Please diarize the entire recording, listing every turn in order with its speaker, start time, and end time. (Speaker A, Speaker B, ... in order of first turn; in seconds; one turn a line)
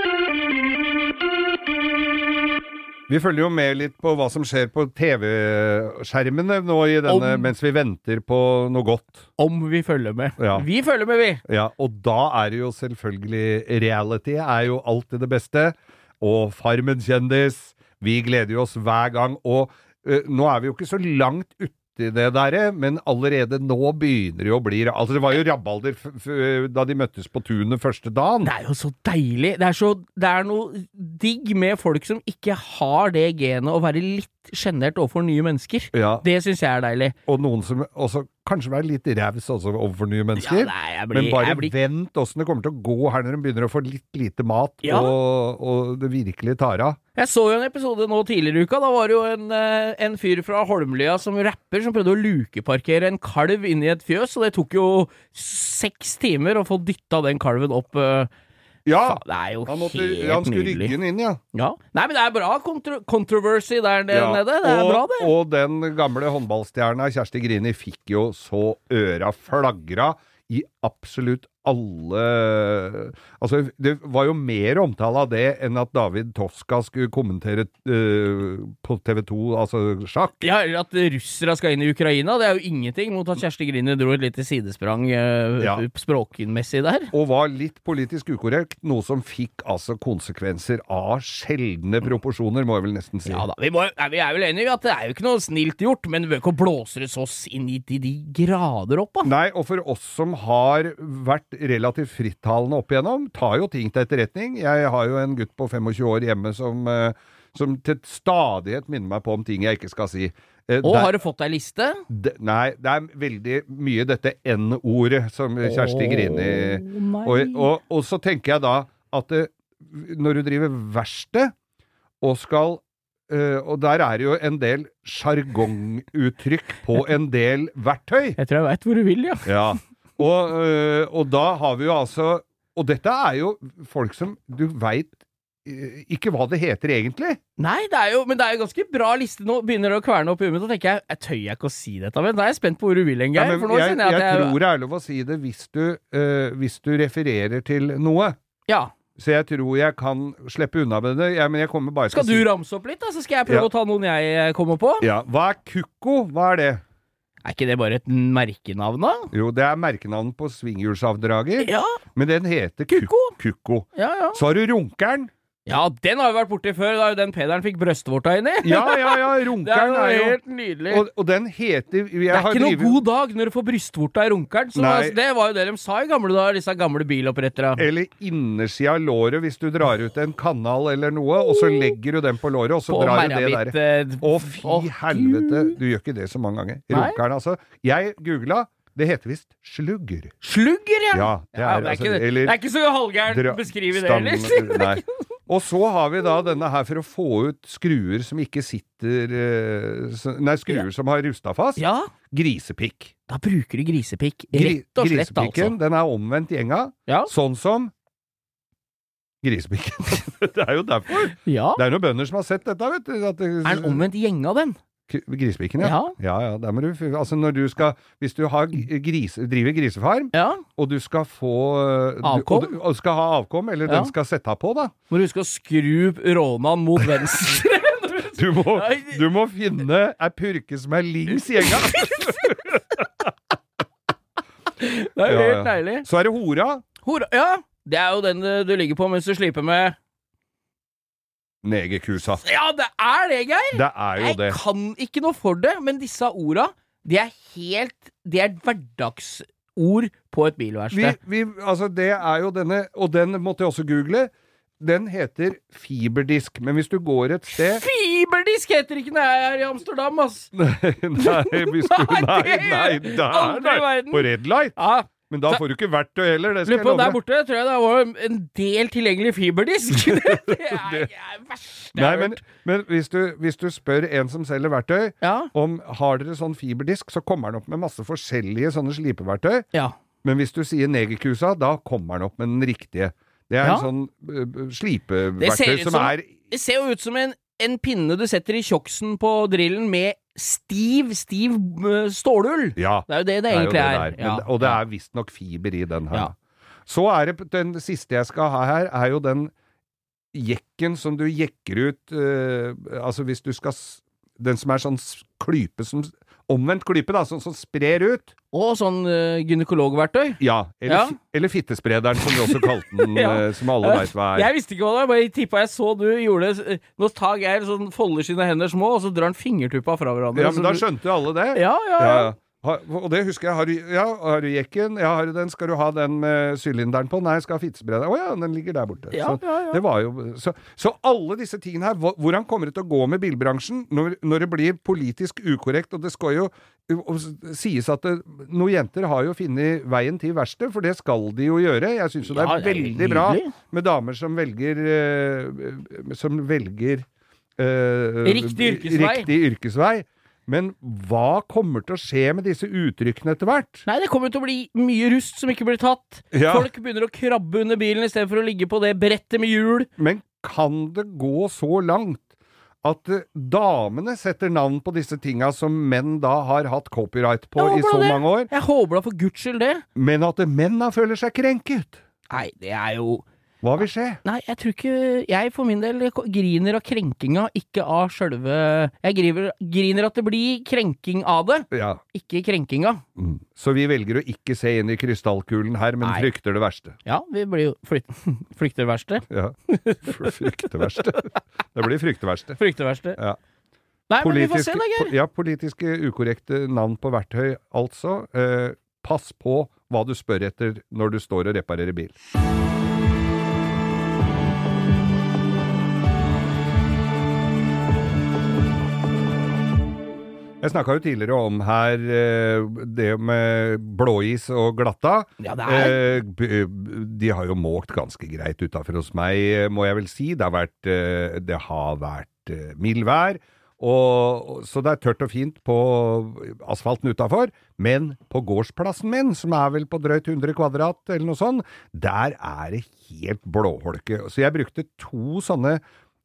Speaker A: 3.1-9.3
Speaker B: 7.0-7.5
Speaker B: 9.4-11.4
Speaker A: 10.4-10.7
Speaker A: 11.4-28.5
Speaker B: 28.4-37.1
Speaker A: 35.9-36.2
Speaker A: 37.3-47.0
Speaker B: 40.4-41.7
Speaker B: 44.8-45.1
Speaker B: 47.1-58.3
Speaker A: 58.8-61.4
Speaker B: 59.0-61.0
Speaker B: 61.5-65.3
Speaker A: 64.1-80.5
Speaker B: 80.4-87.1
Speaker A: 87.1-93.5
Speaker B: 93.2-99.3
Speaker A: 99.2-111.2
Speaker B: 110.8-112.0
Speaker A: 112.1-121.5
Speaker B: 115.6-117.7
Speaker A: 122.2-128.4
Speaker B: 128.4-129.5
Speaker A: 129.4-137.4
Speaker B: 137.6-144.6
Speaker A: 143.3-148.4
Speaker B: 148.7-148.9
Speaker A: 149.2-152.5
Speaker B: 152.1-155.1
Speaker A: 155.0-156.8
Speaker B: 157.4-159.3
Speaker A: 159.3-165.3
Speaker B: 161.6-162.0
Speaker B: 162.9-163.3
Speaker B: 163.9-164.4
Speaker B: 165.7-171.0
Speaker A: 168.6-170.4
Speaker A: 170.9-173.0
Speaker B: 172.3-177.8
Speaker A: 174.7-175.2
Speaker A: 177.8-190.3
Speaker B: 182.9-185.8
Speaker B: 186.9-187.2
Speaker B: 190.4-195.0
Speaker A: 191.1-192.6
Speaker A: 193.3-203.1
Speaker B: 201.8-202.1
Speaker B: 203.3-205.7
Speaker A: 204.5-207.9
Speaker B: 207.1-207.3
Speaker A: 209.4-214.1
Speaker B: 211.3-211.8
Speaker B: 213.6-214.8
Speaker A: 215.1-224.9
Speaker B: 215.8-216.2
Speaker B: 220.3-220.6
Speaker B: 222.2-222.7
Speaker B: 223.9-224.1
Speaker B: 225.1-229.2
Speaker A: 228.3-233.3
Speaker B: 231.6-232.6
Speaker B: 234.8-236.1
Speaker A: 235.2-236.8
Speaker B: 237.0-239.9
Speaker A: 241.6-242.4
Speaker B: 242.4-251.2
Speaker A: 243.7-244.6
Speaker A: 250.9-257.8
Speaker B: 257.5-260.5
Speaker A: 260.5-264.8
Speaker B: 261.2-265.6
Speaker A: 265.3-267.2
Speaker B: 266.6-272.4
Speaker A: 269.9-271.1
Speaker A: 271.9-279.6
Speaker B: 275.2-275.5
Speaker A: 280.2-286.3
Speaker B: 283.6-283.9
Speaker B: 285.4-294.8
Speaker A: 292.8-296.3
Speaker A: 296.9-299.5
Speaker A: 300.3-308.3
Speaker B: 308.5-311.2
Speaker A: 310.4-314.5
Speaker B: 312.2-320.9
Speaker A: 320.3-347.1
Speaker B: 321.5-322.3
Speaker B: 329.1-329.8
Speaker B: 342.3-343.5
Speaker A: 347.6-353.8
Speaker B: 348.2-349.3
Speaker B: 353.9-359.9
Speaker A: 356.3-356.7
Speaker A: 360.0-362.2
Speaker A: 362.8-368.5
Speaker B: 367.6-369.8
Speaker A: 369.9-372.0
Speaker B: 372.3-373.2
Speaker A: 373.6-374.2
Speaker B: 374.2-383.0
Speaker A: 381.7-382.0
Speaker A: 383.2-387.0
Speaker B: 386.0-386.3
Speaker B: 387.0-391.1
Speaker A: 389.3-392.6
Speaker B: 392.6-393.2
Speaker B: 394.1-395.1
Speaker A: 394.2-402.1
Speaker A: 410.6-435.8
Speaker B: 415.4-416.0